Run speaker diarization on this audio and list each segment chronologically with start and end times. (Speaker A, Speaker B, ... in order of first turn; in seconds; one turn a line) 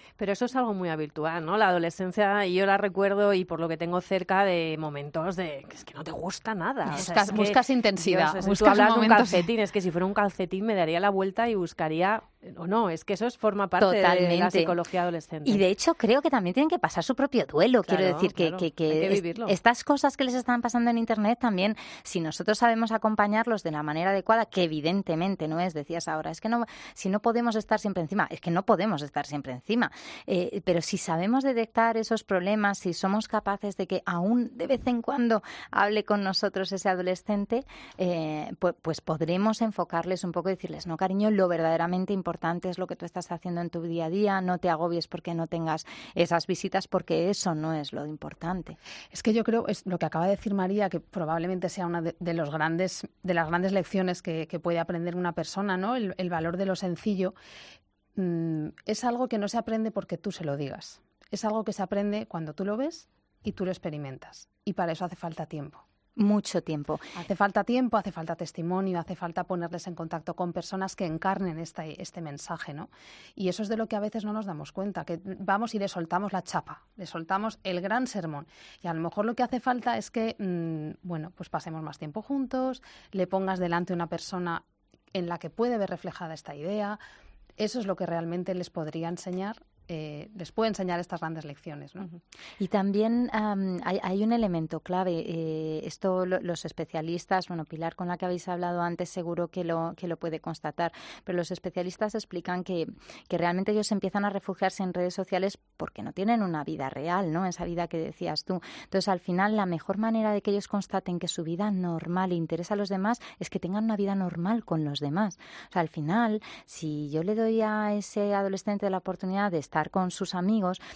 Speaker A: 0.2-15.6
Speaker B: 6.9-9.5
Speaker C: 13.8-14.8
Speaker C: 15.4-48.8
Speaker A: 17.9-19.6
Speaker B: 49.1-57.4
Speaker B: 58.1-65.8
Speaker C: 66.2-67.1
Speaker B: 67.2-87.0
Speaker B: 87.6-92.1
Speaker C: 92.6-120.8